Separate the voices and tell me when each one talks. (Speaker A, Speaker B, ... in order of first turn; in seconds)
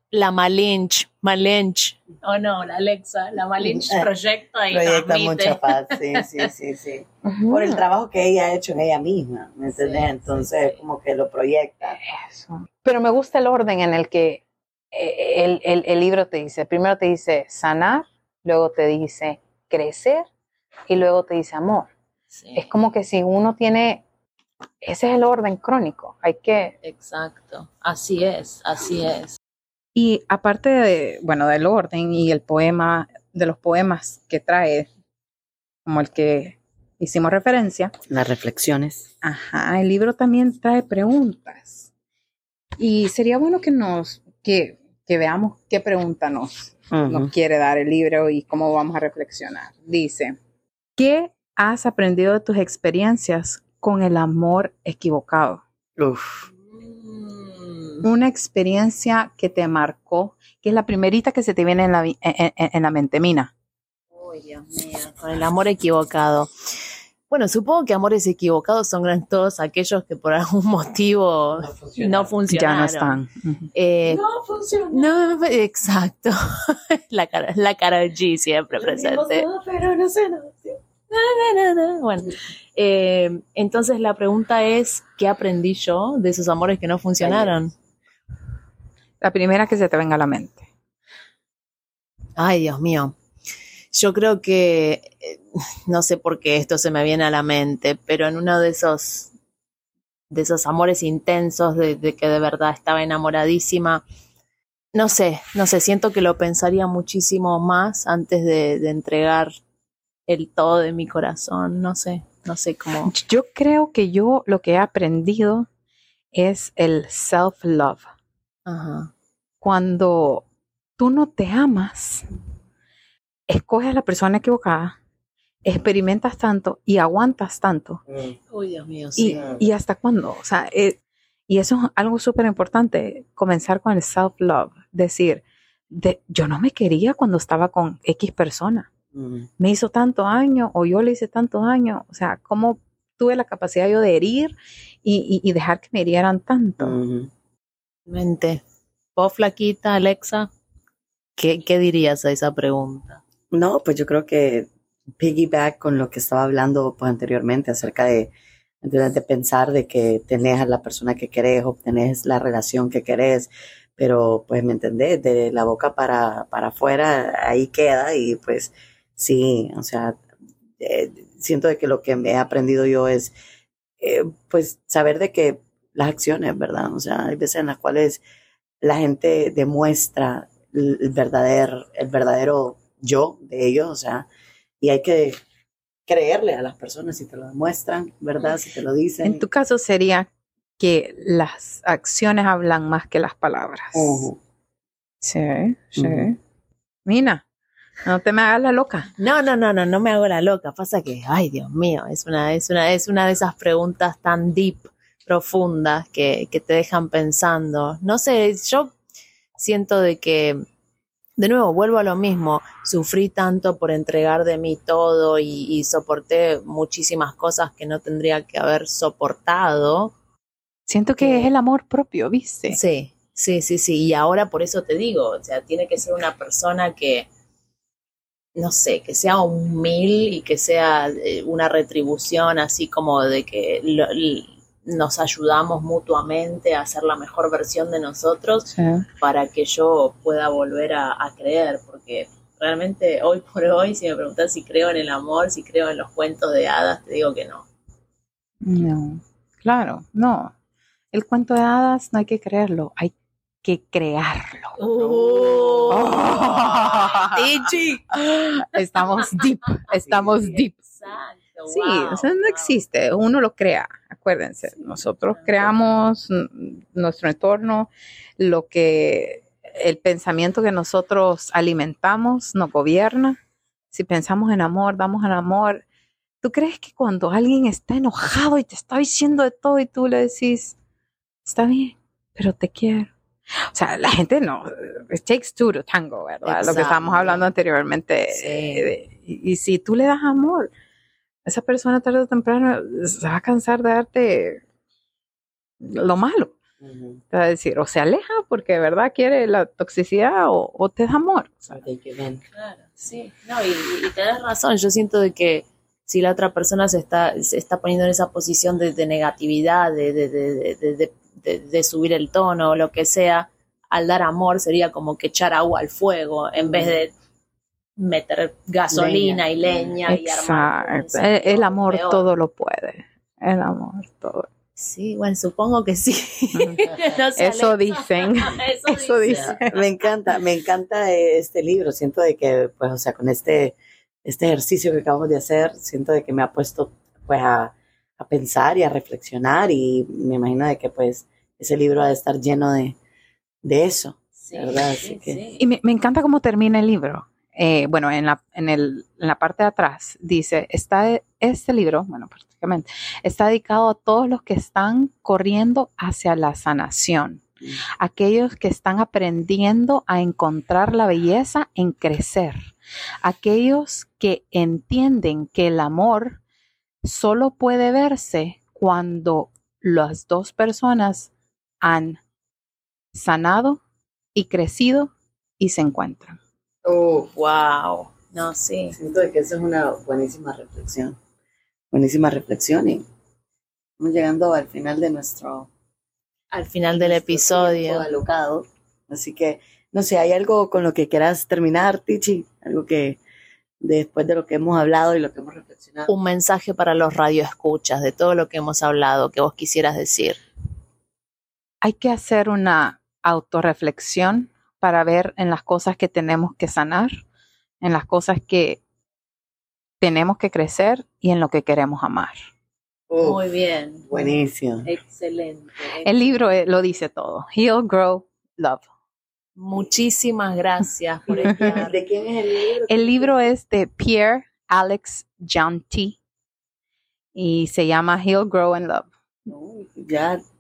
Speaker A: 0.1-6.5, 9.7-10.8, 22.3-22.7, 26.8-29.4, 56.6-58.0, 64.2-66.5, 67.3-73.2, 73.8-74.2, 74.9-79.5, 81.1-87.7, 92.4-93.2, 93.9-99.3, 100.3-104.0, 104.9-109.5, 110.3-113.1, 118.7-119.1, 128.5-129.4, 148.1-148.6, 149.2-150.5, 151.4-153.2, 199.2-208.9, 209.6-210.6, 211.4-220.1, 221.2-221.5, 222.7-227.3, 228.6-247.7, 254.8-258.7, 260.4-262.8, 265.4-265.6, 286.4-287.4, 288.3-288.9, 302.6-317.1, 318.0-322.3, 324.8-329.9, 344.4-345.6, 377.2-379.0, 386.5-388.1, 396.1-400.4, 413.2-414.1, 414.9-416.4, 419.6-422.0
Speaker B: 3.6-4.1, 4.7-12.0, 38.1-39.1, 46.9-47.3, 56.0-56.5, 71.6-72.3, 74.0-75.1, 78.7-80.8, 87.2-87.6, 128.1-128.3, 129.4-129.6, 139.1-139.5, 146.8-147.3, 153.5-170.2, 170.8-173.3, 174.0-178.2, 178.8-184.3, 184.8-185.4, 186.1-189.4, 193.9-194.4, 196.0-196.3, 255.0-256.1, 260.1-260.4, 296.8-297.2, 301.7-302.4, 316.6-316.9, 318.9-320.0, 329.3-343.0, 343.6-345.4, 376.9-377.3, 378.9-381.2, 381.9-383.0, 384.0-385.7, 386.9-393.2, 393.8-396.1, 413.1-413.5, 414.1-414.9, 421.3-423.3, 429.5-430.4
Speaker C: 7.2-7.8, 12.0-20.3, 20.9-21.9, 22.6-24.0, 24.8-26.8, 29.9-34.9, 35.9-37.9, 39.2-41.9, 42.8-50.4, 51.0-55.6, 58.0-63.5, 72.5-73.7, 89.2-90.7, 113.1-115.7, 116.3-118.1, 119.6-120.4, 121.0-122.3, 123.5-125.0, 125.7-128.0, 129.2-138.9, 139.6-147.0, 189.2-190.3, 190.8-194.3, 195.2-196.4, 197.1-197.4, 198.1-199.1, 220.9-222.8, 238.7-239.1, 248.6-250.5, 251.1-254.8, 255.9-257.4, 258.6-260.8, 261.7-273.4, 273.9-275.8, 276.4-280.8, 281.4-283.1, 283.6-290.7, 291.5-294.6, 295.8-296.6, 297.3-301.8, 320.1-324.5, 326.6-326.9, 327.4-329.7, 345.6-357.4, 358.0-362.7, 363.2-366.4, 367.0-371.3, 371.8-372.2, 373.1-373.8, 374.3-376.4, 401.8-407.2, 407.8-408.8, 410.0-412.4, 416.1-418.9, 421.4-421.8, 422.9-426.2, 427.4-429.1